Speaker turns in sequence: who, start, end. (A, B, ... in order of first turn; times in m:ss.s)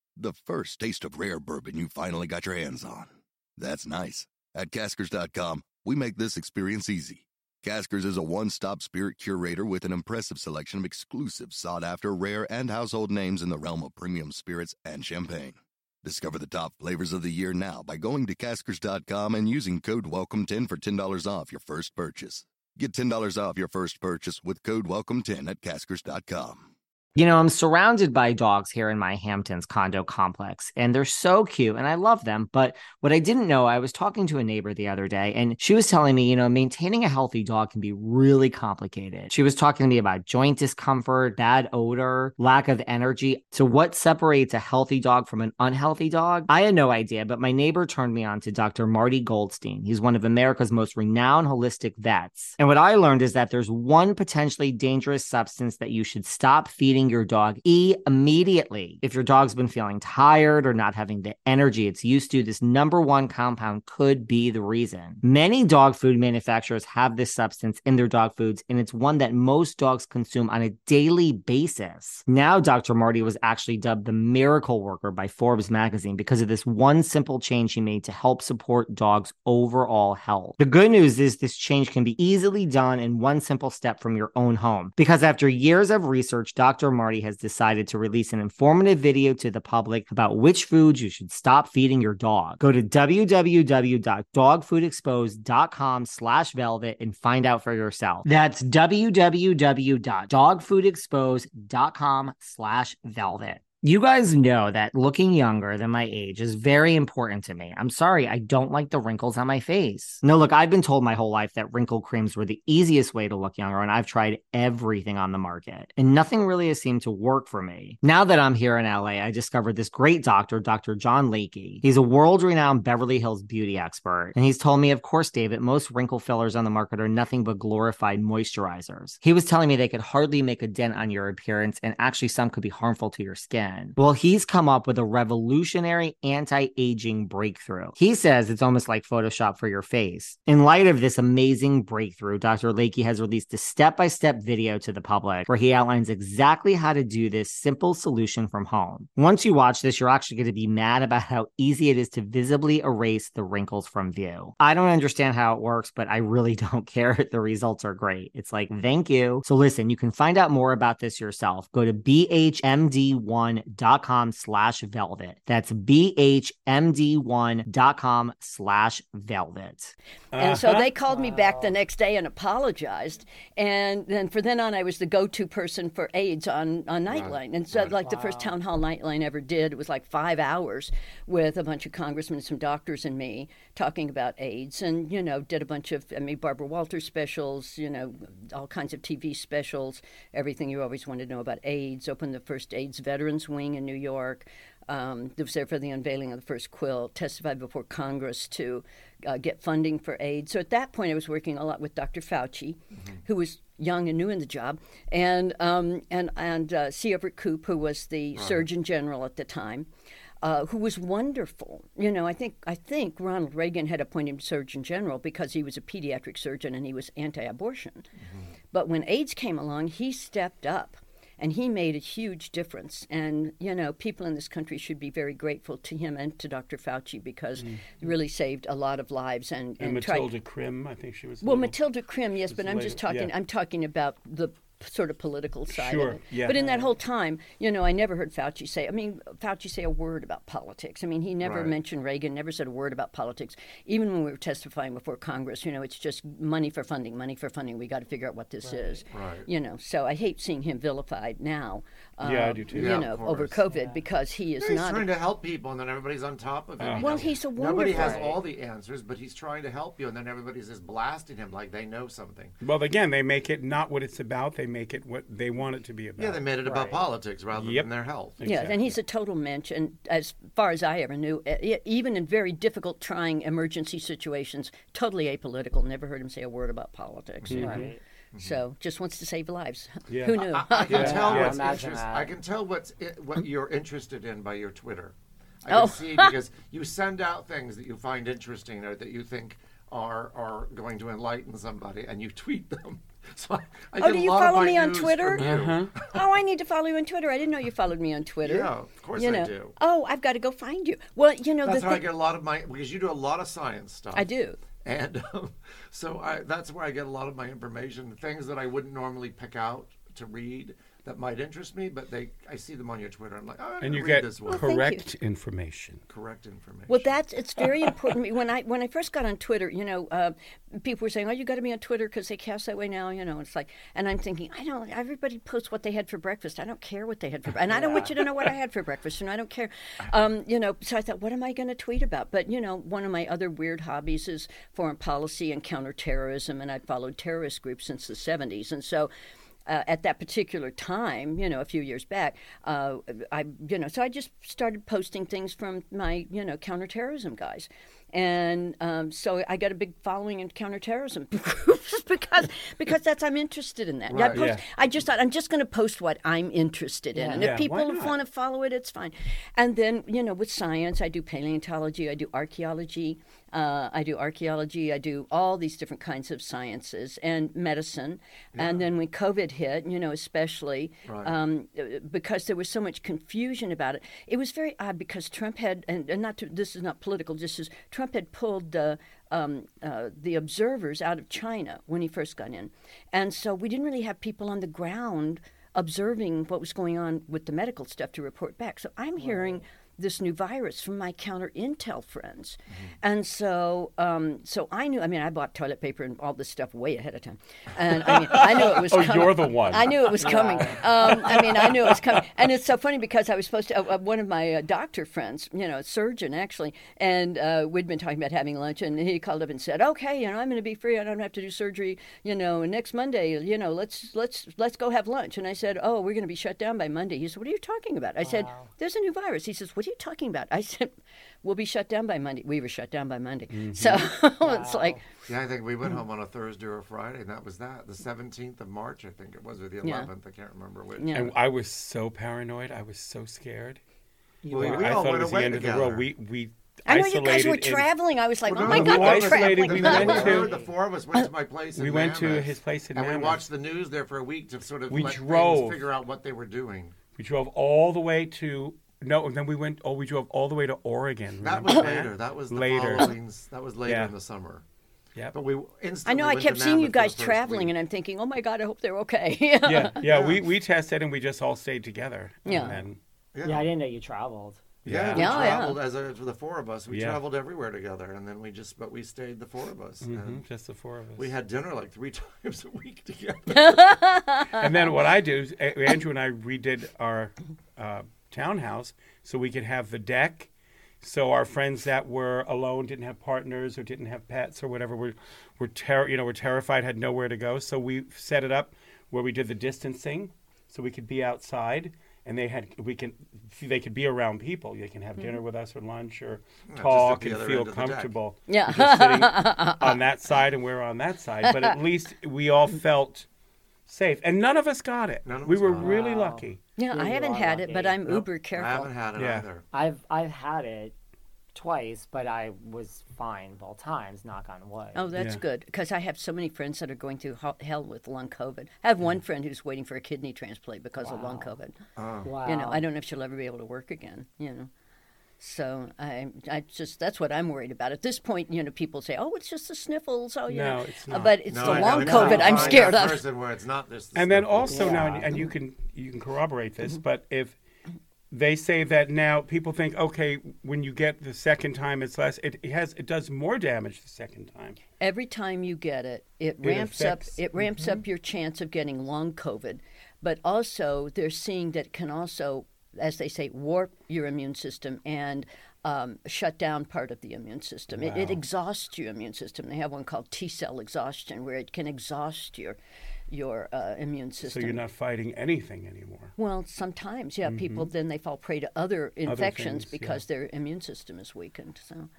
0:00.2-0:26.7 A
0:27.2-2:49.9 B
2:50.3-2:50.9 C
2:50.4-3:29.9 D
2:51.1-2:51.7 E
2:57.1-2:57.9 F
2:58.0-2:58.6 E
3:22.9-3:23.2 F
3:28.4-3:28.7 F
3:30.4-3:38.1 D
3:38.2-3:38.5 F
3:38.7-3:50.3 D
3:47.6-3:48.0 C
3:49.8-3:51.8 C
3:51.4-4:15.1 D
3:52.5-3:53.3 C
3:55.7-3:56.6 C
3:56.5-3:56.9 E
4:01.4-4:01.8 F
4:08.6-4:09.0 E
4:09.1-4:09.5 F
4:12.2-4:13.1 C
4:12.7-4:13.6 F
4:13.7-4:14.0 E
4:14.6-4:22.6 F
4:16.8-4:17.2 C
4:17.0-4:18.4 D
4:17.9-4:18.4 E
4:22.6-4:26.5 C
4:26.2-4:28.4 F
4:26.6-4:27.0 E
4:27.6-4:29.0 C
4:28.4-4:37.8 D
4:37.4-4:37.7 F
4:37.5-4:37.9 C
4:37.5-4:38.0 E
4:38.3-4:38.6 F
4:38.4-4:41.2 D
4:40.1-4:41.7 C
4:40.4-4:56.2 F
4:40.9-4:42.4 E
4:45.7-4:46.4 D
4:54.0-4:55.5 D
4:55.4-4:55.9 C
4:56.1-5:02.1 D
4:58.4-4:59.8 F
5:01.6-5:04.3 F
5:04.2-5:04.6 D
5:04.8-5:14.6 F
5:13.8-5:16.0 C
5:14.5-5:15.1 D
5:16.1-5:17.1 F
5:16.9-5:39.1 D
5:27.7-5:28.1 E
5:39.7-7:05.0 D
5:54.1-5:54.4 F
5:54.3-5:54.6 C
5:57.1-5:57.6 E
5:57.4-5:58.2 C
6:08.6-6:08.9 F
6:11.0-6:11.4 F
6:29.2-6:29.6 E
6:38.4-6:40.2 C
6:40.2-6:41.4 E
6:41.2-6:41.7 C
6:58.2-6:58.7 E
7:03.5-7:04.0 C
7:04.4-7:05.0 E
7:05.3-7:11.2 F
7:09.8-7:10.1 D
7:11.0-7:11.3 D
7:11.1-7:13.8 C
7:14.4-7:15.1 E
7:14.5-7:17.9 C
7:14.5-7:16.1 F
7:16.9-7:20.4 D
7:18.5-7:27.0 F
7:18.6-7:20.5 C
7:19.8-7:20.8 E
7:21.8-7:23.4 C
7:24.9-7:25.9 C
7:27.2-7:33.2 C
7:31.4-7:34.6 F
7:33.8-7:34.1 C
7:35.3-7:37.7 F
7:36.1-7:40.0 D
7:39.7-7:43.0 C
7:40.0-7:40.4 F
7:42.5-7:42.8 D
7:43.4-7:43.7 F
7:43.4-7:45.7 E
7:44.8-7:45.6 C
7:44.8-7:50.4 F
7:45.1-7:45.8 D
7:46.9-7:47.2 C
7:50.0-7:51.3 C
7:51.2-7:53.8 F
7:53.5-7:54.6 D
7:54.6-8:00.5 C
8:01.0-8:23.3 C
8:16.7-8:18.1 F
8:18.5-8:20.0 D
8:21.5-8:21.8 D
8:23.9-8:26.6 C
8:25.2-8:26.0 F
8:25.8-8:28.0 E
8:26.8-8:28.9 D
8:28.1-8:29.6 F
8:29.2-8:29.5 C
8:29.7-8:31.0 E
8:31.6-8:35.1 E
8:35.0-8:41.7 D
8:35.2-8:35.4 C
8:41.0-8:41.6 E
8:42.0-8:42.3 F
8:42.2-8:42.8 E
8:42.4-8:44.7 D
8:45.4-8:53.2 D
8:50.5-8:53.1 C
8:51.5-8:55.2 F
8:54.1-8:57.6 C
8:54.7-8:55.5 E
8:58.3-9:04.8 C
9:05.0-9:22.8 D
9:06.6-9:08.0 C
9:18.0-9:18.4 C
9:23.3-9:24.8 D
9:24.4-9:26.3 C
9:26.4-9:32.1 D
9:27.5-9:27.9 C
9:29.3-9:30.2 C